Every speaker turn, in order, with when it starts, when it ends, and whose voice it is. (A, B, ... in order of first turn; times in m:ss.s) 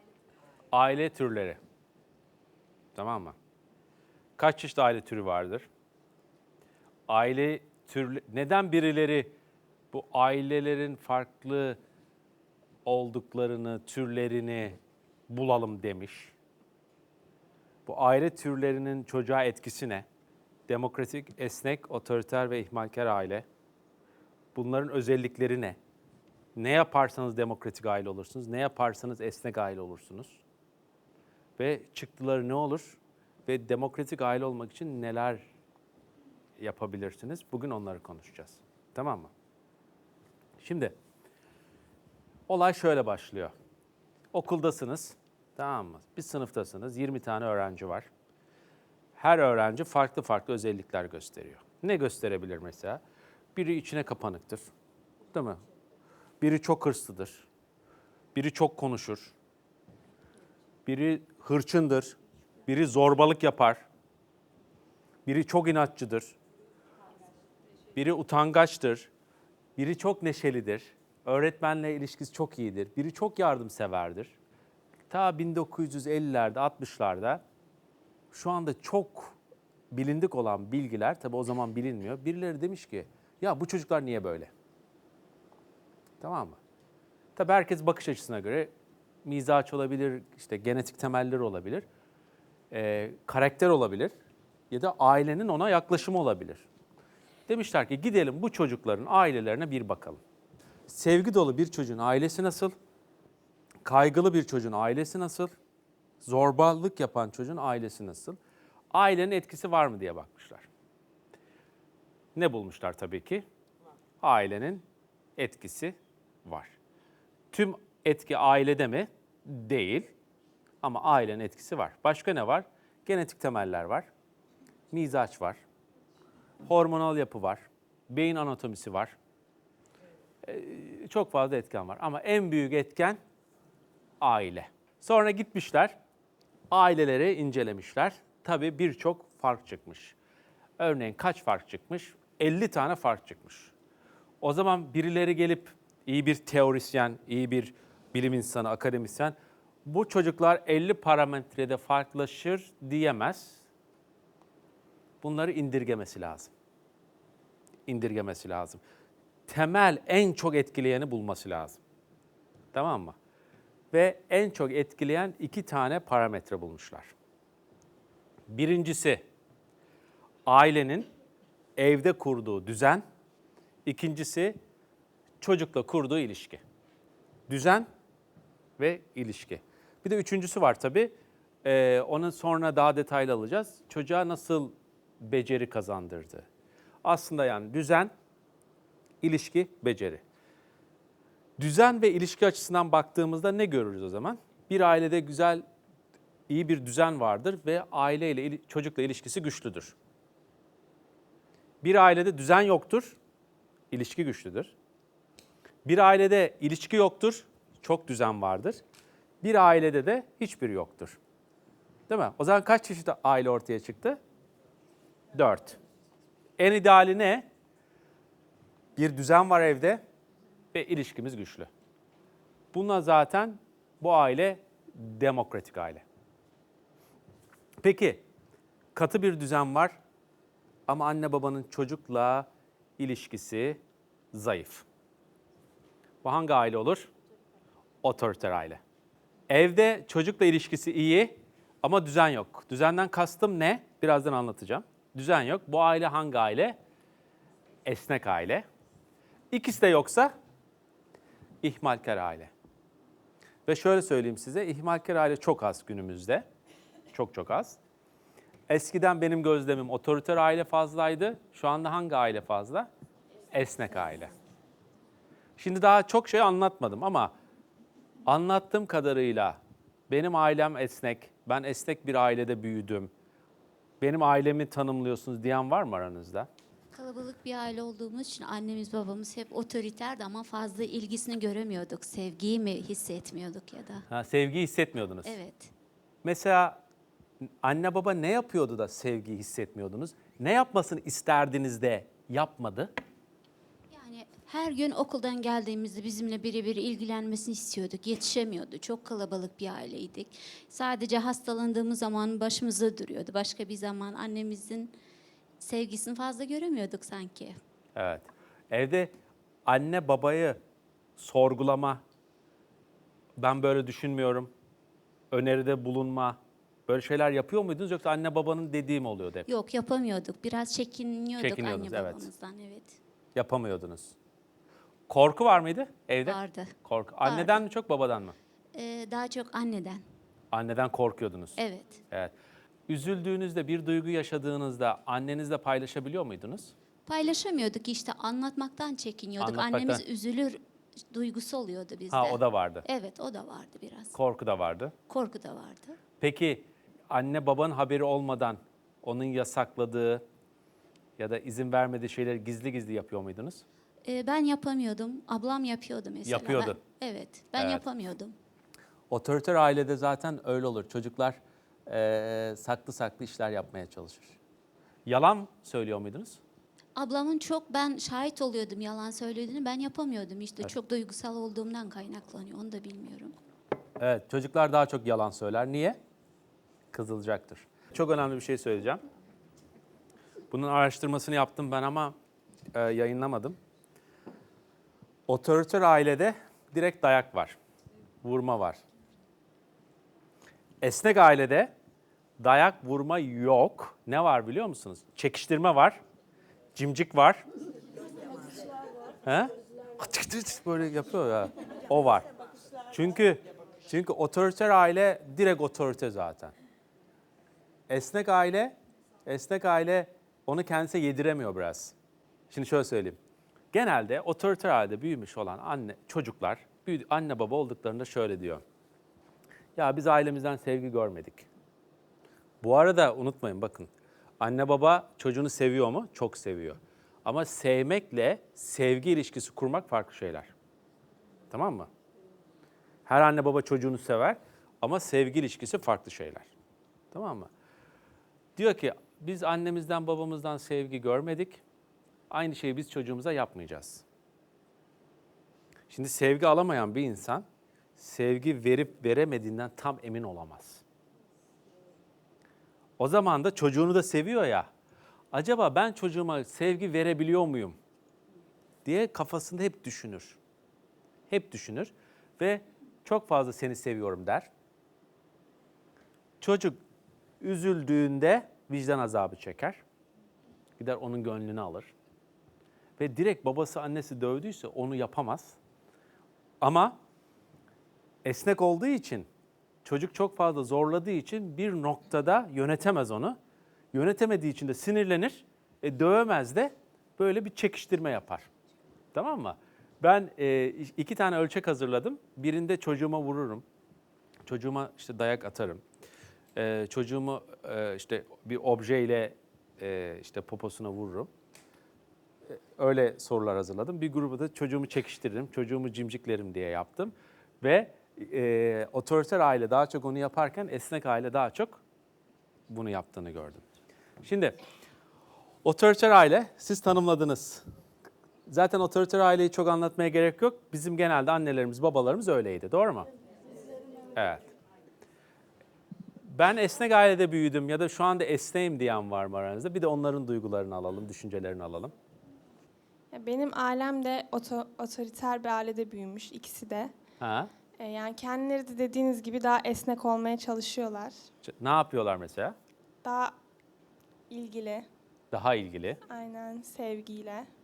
0:00.7-0:01.6 A
0:03.0-0:03.4 A
0:04.4-0:05.7 A
0:07.1-0:09.3 A
0:09.9-0:11.8 A
0:12.8-0:14.8 A
0:15.3-0:16.3 A
0:17.9-0:20.1 A
0:20.7-0:23.4 A
0:24.6-0:25.8 A
0:26.6-0:30.4 A
0:31.6-0:35.4 A
0:36.6-0:39.3 A
0:40.6-0:41.0 A
0:42.5-0:43.5 A
0:44.3-0:48.1 A
0:49.2-0:53.0 A
0:53.6-0:54.6 A
0:55.3-0:55.6 A
0:56.4-0:57.5 A
0:58.4-0:59.4 A
1:00.9-1:02.2 A
1:02.7-1:03.8 A
1:05.3-1:06.4 A
1:08.0-1:09.1 A
1:09.8-1:14.4 A
1:15.1-1:17.4 A
1:18.3-1:19.4 A
1:19.9-1:24.5 A
1:26.2-1:26.6 A
1:27.4-1:28.7 A
1:29.2-1:31.8 A
1:32.7-1:34.1 A
1:34.7-1:36.7 A
1:37.5-1:40.2 A
1:40.9-1:42.7 A
1:43.8-1:45.5 A
1:46.2-1:48.4 A
1:48.9-1:50.7 A
1:52.4-1:53.4 A
1:54.2-1:54.8 A
1:55.4-1:56.8 A
1:57.5-2:00.1 A
2:00.8-2:04.1 A
2:04.9-2:05.6 A
2:06.6-2:09.2 A
2:10.4-2:13.2 A
2:14.2-2:16.0 A
2:16.7-2:20.2 A
2:20.8-2:23.7 A
2:24.4-2:33.6 A
2:35.2-2:36.5 A
2:37.9-2:38.8 A
2:39.5-2:41.8 A
2:42.7-2:43.2 A
2:43.9-2:47.1 A
2:48.5-2:49.2 A
2:50.5-2:51.1 A
2:51.8-2:53.0 A
2:53.8-2:54.6 A
2:55.4-2:56.6 A
2:57.5-2:57.9 A
2:58.8-3:01.1 A
3:01.6-3:06.5 A
3:07.0-3:08.1 A
3:09.2-3:10.2 A
3:11.6-3:15.6 A
3:16.5-3:20.0 A
3:21.8-3:23.2 A
3:23.9-3:24.7 A
3:25.8-3:28.8 A
3:29.4-3:31.2 A
3:32.1-3:34.2 A
3:35.3-3:35.8 A
3:36.6-3:37.5 A
3:39.0-3:40.0 A
3:40.7-3:41.7 A
3:42.7-3:46.0 A
3:47.8-3:48.2 A
3:49.0-3:50.0 A
3:50.9-3:52.5 A
3:53.0-3:53.8 A
3:54.3-3:54.8 A
3:56.2-3:57.1 A
3:58.0-3:58.8 A
3:59.5-4:06.8 A
4:07.9-4:08.6 A
4:09.5-4:10.3 A
4:11.6-4:12.5 A
4:13.7-4:16.5 A
4:17.1-4:17.8 A
4:18.7-4:22.9 A
4:23.5-4:24.3 A
4:25.6-4:27.3 A
4:28.3-4:33.1 A
4:34.0-4:36.5 A
4:36.9-4:44.0 B
4:44.1-4:45.4 A
4:45.2-4:45.7 B
4:46.2-4:46.8 A
4:47.6-4:52.9 A
4:53.9-5:04.9 B
5:05.6-5:07.6 B
5:08.0-5:09.1 A
5:09.7-5:10.6 A
5:11.2-5:12.0 A
5:13.4-5:14.5 A
5:15.3-5:19.5 A
5:19.5-5:23.0 B
5:21.4-5:22.3 A
5:23.4-5:24.2 A
5:25.1-5:28.4 A
5:26.2-5:27.6 B
5:28.7-5:30.0 B
5:30.5-5:31.6 A
5:31.6-5:32.0 B
5:32.9-5:36.7 A
5:37.1-5:40.6 B
5:39.4-5:40.0 A
5:41.1-5:44.1 B
5:42.1-5:42.8 A
5:44.1-5:44.9 A
5:45.1-5:46.0 B
5:46.2-5:50.2 A
5:51.2-5:53.6 A
5:54.0-5:58.4 B
5:56.2-5:56.8 A
5:57.6-5:57.8 A
5:59.1-6:04.4 A
6:05.1-6:06.4 A
6:07.0-6:13.3 B
6:14.0-6:16.0 A
6:16.9-6:19.0 A
6:20.5-6:22.2 A
6:22.7-6:23.6 A
6:25.3-6:27.6 A
6:28.2-6:28.8 A
6:30.8-6:31.7 A
6:32.4-6:36.0 A
6:36.8-6:37.4 A
6:39.2-6:42.3 A
6:42.9-6:46.5 A
6:47.9-6:52.0 A
6:52.5-6:53.2 A
6:53.7-6:58.6 A
6:59.8-7:01.5 A
7:02.6-7:10.5 A
7:11.5-7:11.9 A
7:13.1-7:16.5 A
7:17.1-7:17.5 A
7:18.6-7:21.6 A
7:22.3-7:24.0 A
7:25.9-7:27.4 A
7:28.0-7:30.8 A
7:33.0-7:34.7 A
7:35.3-7:37.8 A
7:38.8-7:40.4 A
7:41.3-7:44.5 A
7:46.4-7:46.8 A
7:47.4-7:49.8 A
7:50.8-7:51.9 A
7:53.0-7:55.6 A
7:56.6-7:57.0 A
7:58.2-7:59.3 A
7:59.8-8:03.4 A
8:03.9-8:08.5 A
8:09.1-8:13.6 A
8:14.5-8:15.8 A
8:16.6-8:21.3 A
8:22.5-8:31.8 A
8:32.7-8:33.6 A
8:34.2-8:34.6 A
8:35.6-8:37.6 A
8:38.5-8:43.1 A
8:44.2-8:44.5 A
8:46.3-8:51.9 A
8:53.1-8:56.9 C
8:57.2-8:57.5 A
8:57.8-9:01.2 C
9:01.4-9:02.6 A
9:03.0-9:03.3 C
9:04.3-9:04.9 C
9:05.3-9:06.0 A
9:06.1-9:07.5 C